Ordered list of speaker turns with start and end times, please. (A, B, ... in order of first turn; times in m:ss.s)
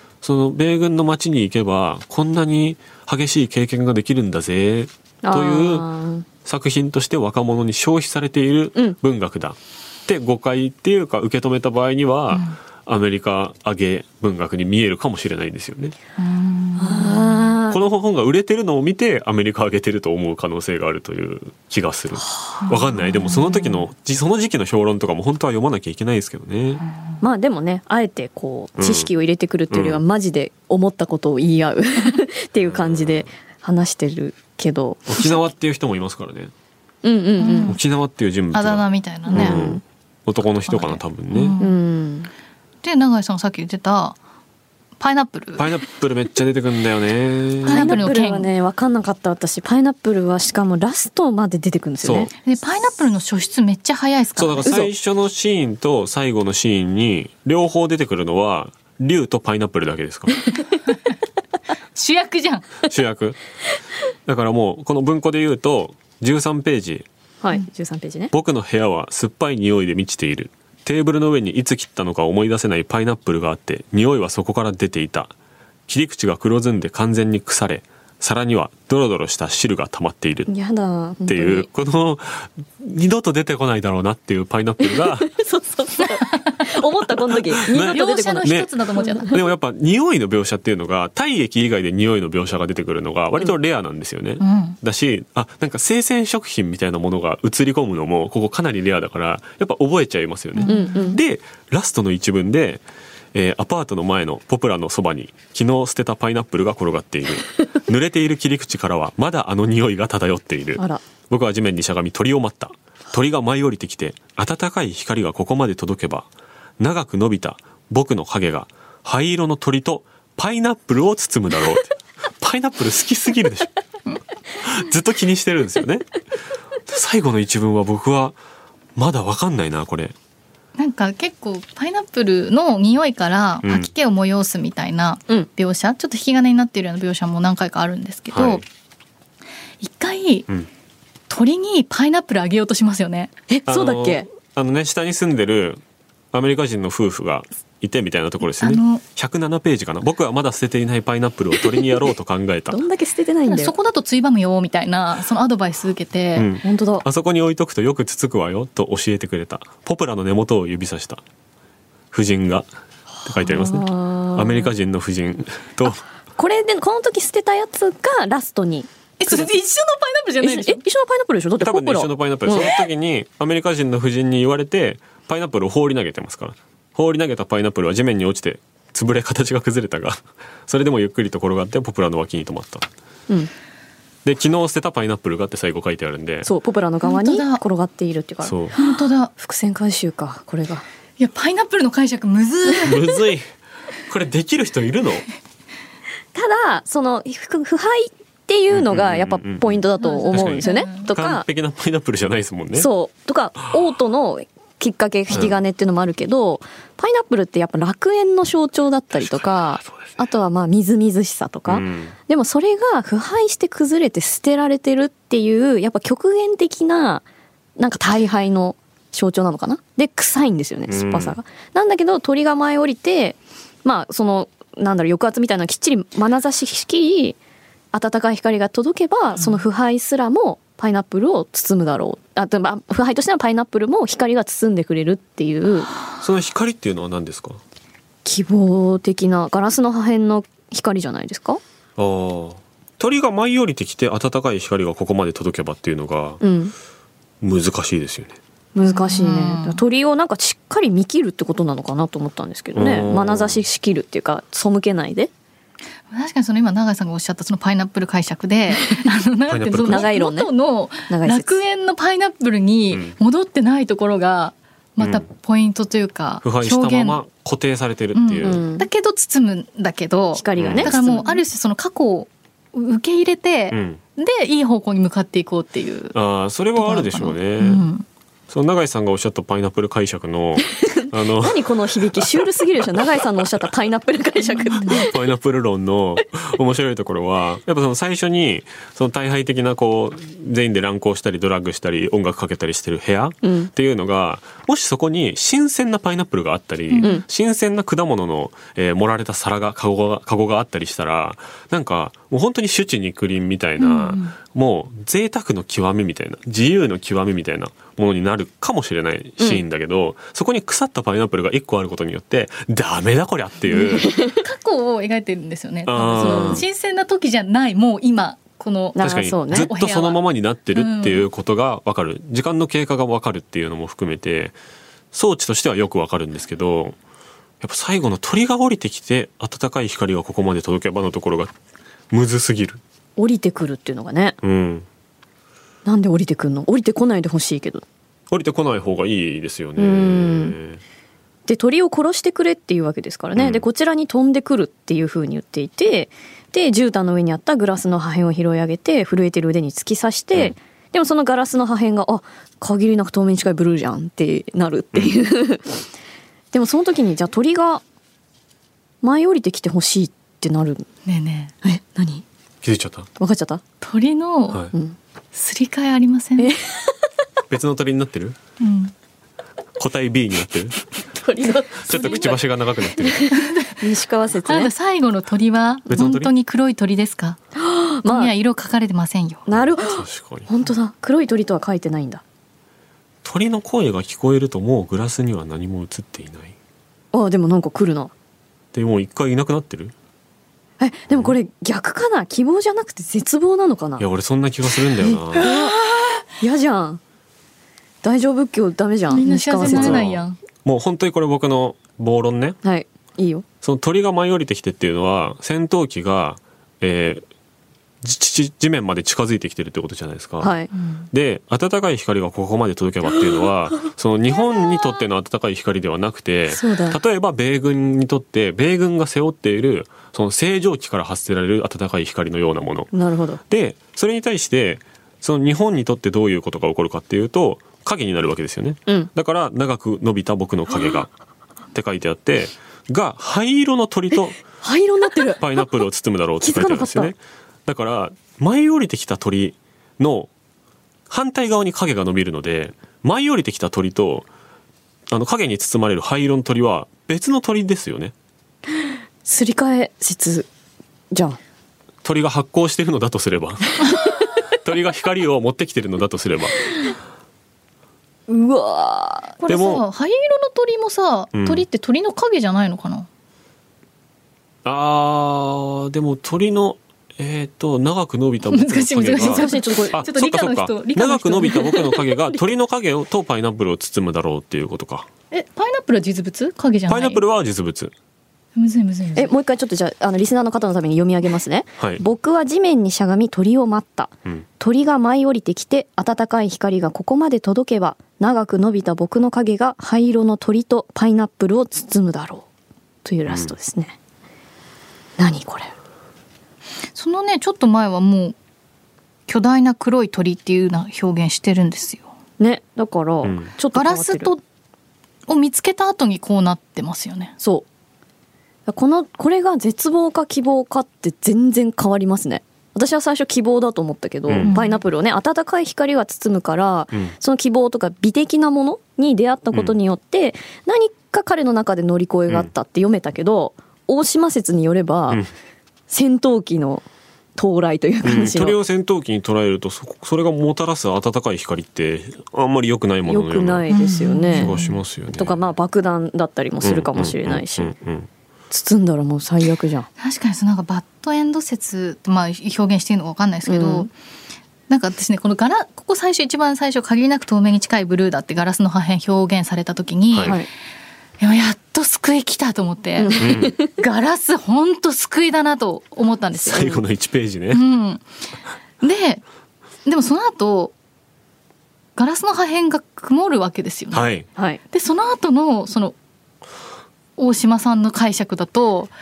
0:00.2-0:05.9 A
0:05.2-0:06.2 B
0:06.4-0:15.9 A
0:12.3-0:12.6 C
0:16.2-0:17.5 C
0:16.8-0:17.8 B
0:17.7-0:26.8 A
0:22.6-0:23.8 C
0:27.2-0:35.2 B
0:28.8-0:29.1 A
0:29.7-0:30.0 A
0:32.6-0:33.3 A
0:35.1-0:36.5 A
0:37.0-0:37.7 B
0:37.4-0:37.8 C
0:37.6-0:41.6 A
0:38.5-0:39.7 C
0:39.3-0:39.8 B
0:40.5-0:41.8 C
0:41.6-0:42.3 B
0:42.8-0:44.2 C
0:45.0-0:45.7 C
0:45.6-0:48.0 A
0:47.6-0:52.3 B
0:47.6-0:48.5 C
0:52.0-0:52.3 A
0:52.4-0:54.6 C
0:54.4-1:00.5 A
0:54.6-0:54.9 B
1:01.9-1:02.7 C
1:02.8-1:03.4 A
1:04.2-1:07.1 A
1:07.4-1:08.3 B
1:08.3-1:15.3 A
1:15.9-1:20.5 A
1:20.5-1:21.7 B
1:21.2-1:25.3 A
1:24.9-1:29.3 B
1:27.7-1:42.8 A
1:27.7-1:29.4 C
1:34.4-1:34.8 C
1:40.6-1:41.2 C
1:40.6-1:41.2 B
1:43.3-1:56.3 A
1:50.8-1:51.0 B
1:56.8-2:03.7 A
2:04.6-2:06.2 A
2:06.8-2:08.4 A
2:09.0-2:10.1 A
2:10.8-2:18.6 C
2:13.6-2:13.9 A
2:18.3-2:18.6 A
2:19.8-2:20.5 C
2:21.3-2:23.3 C
2:23.5-2:24.2 B
2:23.7-2:25.8 A
2:26.3-2:32.8 A
2:28.6-2:29.0 C
2:32.7-2:33.7 B
2:33.4-2:36.5 C
2:36.4-2:41.2 A
2:36.6-2:37.0 B
2:42.1-2:42.7 A
2:43.2-2:46.0 A
2:43.4-2:44.7 B
2:46.4-2:49.5 B
2:49.2-2:50.8 C
2:50.4-2:52.8 B
2:51.6-3:02.9 A
3:04.2-3:06.5 A
3:06.4-3:10.8 B
3:07.0-3:07.6 C
3:08.4-3:08.8 A
3:08.7-3:09.3 C
3:11.2-3:13.1 C
3:12.8-3:13.5 A
3:14.1-3:15.3 A
3:16.3-3:21.4 B
3:18.7-3:22.9 A
3:20.0-3:21.1 C
3:22.7-3:37.2 B
3:25.3-3:25.6 A
3:29.1-3:30.2 A
3:31.7-3:32.2 A
3:37.8-3:47.4 B
3:40.9-3:41.4 A
3:47.9-3:55.9 B
3:56.2-3:57.6 A
3:58.2-4:01.6 B
4:02.0-4:06.4 A
4:06.4-4:06.7 B
4:07.4-4:08.4 A
4:08.7-4:15.3 B
4:08.8-4:09.8 C
4:12.7-4:13.6 A
4:16.1-4:27.2 C
4:19.5-4:20.1 A
4:19.7-4:20.5 B
4:21.1-4:21.6 B
4:25.0-4:25.2 A
4:26.4-4:28.6 A
4:28.1-4:36.1 C
4:28.4-4:28.9 B
4:30.3-4:31.4 B
4:30.6-4:31.0 A
4:33.7-4:34.0 A
4:36.1-4:37.9 A
4:36.8-4:38.0 C
4:38.5-4:43.5 A
4:40.8-4:45.2 B
4:44.4-4:45.0 C
4:44.9-5:14.1 A
4:53.4-4:53.7 B
4:56.9-4:57.2 C
5:03.8-5:04.3 C
5:09.4-5:09.6 B
5:13.7-5:14.4 B
5:13.7-5:20.2 C
5:15.8-5:16.6 A
5:16.1-5:16.6 B
5:18.9-5:19.7 B
5:19.0-5:24.6 A
5:20.7-5:21.3 C
5:25.1-5:27.0 A
5:27.6-5:31.5 A
5:32.1-5:32.8 A
5:33.2-5:34.4 B
5:34.4-5:34.9 A
5:35.8-5:37.8 B
5:38.3-5:40.8 A
5:39.8-5:40.6 B
5:41.5-5:55.9 B
5:43.3-5:43.6 A
5:56.5-5:57.8 B
5:59.0-6:00.9 B
6:01.0-6:01.5 C
6:01.6-6:02.2 B
6:02.6-6:03.1 A
6:03.2-6:03.6 B
6:03.8-6:04.6 C
6:05.3-6:06.5 C
6:06.4-6:06.9 B
6:07.5-6:08.4 A
6:08.6-6:08.9 C
6:09.8-6:10.8 A
6:11.1-6:12.4 B
6:11.8-6:13.2 A
6:11.9-6:12.2 C
6:13.0-6:14.7 B
6:13.3-6:13.8 C
6:14.4-6:17.4 C
6:15.9-6:16.3 A
6:17.6-6:18.3 B
6:18.0-6:19.4 C
6:19.5-6:22.2 B
6:19.5-6:20.5 A
6:23.2-6:26.5 A
6:27.1-6:28.1 B
6:28.7-6:29.9 A
6:30.8-6:34.0 B
6:31.1-6:31.3 A
6:34.0-6:35.5 A
6:35.0-6:35.8 B
6:35.4-6:36.2 C
6:36.4-6:37.0 B
6:38.0-6:40.0 B
6:39.1-6:40.4 C
6:39.6-6:42.6 A
6:42.6-6:43.4 B
6:43.6-6:47.2 A
6:48.0-6:50.6 A
6:50.4-6:50.7 B
6:50.7-6:51.0 C
6:51.1-7:02.9 A
6:56.5-6:57.0 B
7:02.9-7:03.4 B
7:03.5-7:11.1 A
7:11.7-7:14.4 A
7:14.5-7:15.7 B
7:15.4-7:20.3 A
7:16.4-7:17.1 B
7:21.1-7:24.3 A
7:25.1-7:28.1 A
7:29.2-7:30.5 B
7:31.1-7:31.4 B
7:32.0-7:33.9 A
7:34.6-7:36.9 A
7:38.3-7:39.4 B
7:39.4-7:43.1 C
7:39.5-7:39.8 A
7:41.3-7:41.6 A
7:44.6-7:55.0 A
7:48.4-7:52.1 C
7:49.1-7:50.0 B
7:55.3-7:57.2 C
7:56.9-7:57.9 A
7:58.6-7:59.3 C
7:59.2-8:12.4 B
8:13.0-8:14.0 B
8:13.3-8:13.5 A
8:15.2-8:15.7 B
8:16.9-8:18.4 C
8:19.3-8:22.1 C
8:22.4-8:24.3 B
8:23.2-8:23.5 A
8:23.7-8:24.4 C
8:25.3-8:27.4 C
8:27.4-8:27.6 B
8:28.7-8:45.2 B
8:34.3-8:34.5 A
8:34.4-8:34.8 C
8:45.9-8:46.8 B
8:47.4-8:48.6 B
8:48.0-8:53.7 A
8:53.0-8:54.6 B
8:53.7-8:54.8 C
8:54.3-8:55.4 A
8:55.1-8:57.7 B
8:56.6-8:58.1 A
8:58.5-8:59.9 B
9:00.0-9:03.9 C
9:03.4-9:03.9 B
9:04.7-9:10.4 C
9:10.1-9:10.4 A
9:11.2-9:16.8 C
9:13.0-9:13.7 B
9:13.2-9:13.6 A
9:16.4-9:17.6 A
9:17.5-9:18.0 C
9:18.8-9:19.2 C
9:19.8-9:20.7 C
9:22.0-9:24.1 C
9:23.9-9:24.3 A
9:24.4-9:24.6 B
9:24.7-9:26.0 C
9:27.2-9:28.9 C